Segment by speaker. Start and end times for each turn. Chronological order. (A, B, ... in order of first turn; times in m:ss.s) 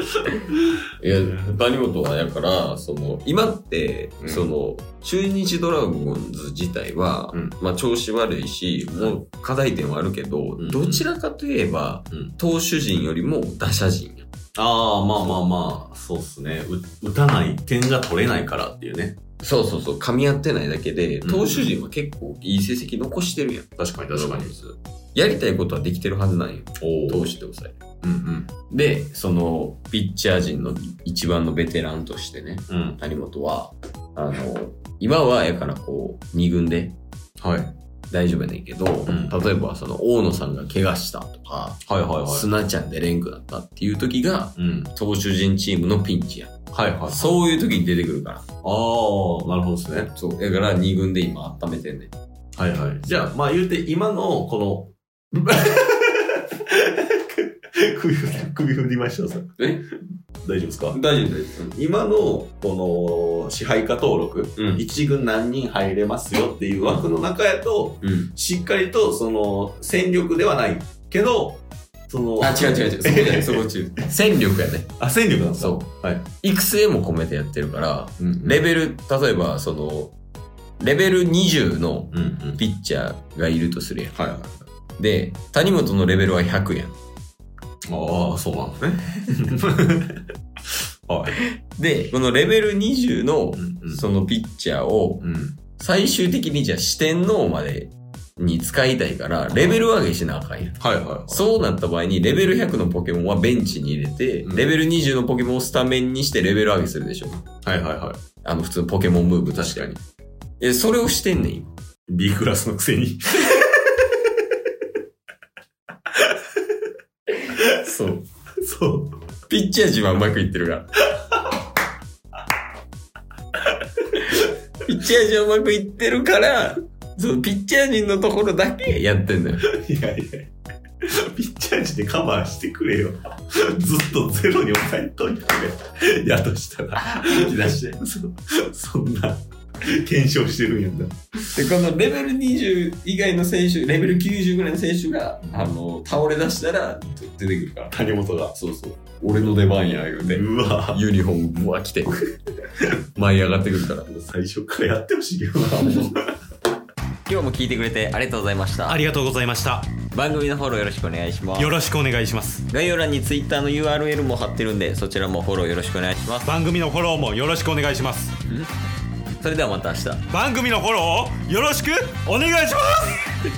0:00.3-0:14.3 A
0:04.2-0:04.5 B
0:08.9-0:09.2 B
0:10.6-0:11.0 B
0:14.6-0:19.2 B
0:19.4-0:27.8 A
0:21.2-0:21.8 B
0:23.8-0:24.6 B
0:26.8-0:27.3 B
0:28.0-0:28.5 B
0:28.7-0:37.0 A
0:32.7-0:33.0 B
0:37.4-0:37.8 B
0:38.1-0:46.5 A
0:39.1-0:39.4 B
0:41.8-0:42.5 B
0:44.6-0:44.9 B
0:46.7-0:47.3 B
0:47.1-0:48.4 A
0:48.6-0:50.1 B
0:50.0-0:52.1 A
0:52.6-0:59.7 B
0:59.6-0:59.8 A
1:00.4-1:01.0 B
1:00.9-1:01.8 A
1:01.7-1:13.6 B
1:04.6-1:04.8 A
1:06.8-1:07.1 A
1:08.0-1:08.3 A
1:12.4-1:14.9 A
1:15.0-1:16.3 B
1:15.6-1:20.2 A
1:18.2-1:18.6 B
1:20.8-1:24.2 A
1:22.1-1:22.6 B
1:24.1-1:24.6 B
1:25.0-1:27.0 A
1:27.9-1:31.4 B
1:31.4-1:47.5 A
1:33.6-1:34.1 B
1:35.2-1:35.6 B
1:39.5-1:39.8 B
1:40.8-1:41.5 B
1:44.4-1:44.8 B
1:47.6-1:48.2 B
1:48.4-1:50.0 A
1:49.5-1:50.0 B
1:50.6-1:51.7 A
1:52.1-1:54.7 B
1:56.1-1:56.9 B
1:57.3-1:58.3 A
1:58.6-1:59.2 B
1:59.5-2:01.0 A
2:01.1-2:01.6 B
2:04.1-2:09.7 A
2:09.6-2:21.5 B
2:17.0-2:18.1 A
2:21.5-2:32.2 A
2:25.4-2:25.8 B
2:27.9-2:28.6 B
2:30.3-2:31.0 B
2:33.2-2:34.2 A
2:34.1-2:36.4 B
2:37.2-2:39.0 A
2:38.9-2:39.9 C
2:40.1-2:41.8 A
2:41.6-2:42.6 C
2:42.7-2:46.6 A
2:46.5-2:48.4 C
2:48.4-2:48.7 A
2:49.4-2:50.3 A
2:50.3-2:53.2 C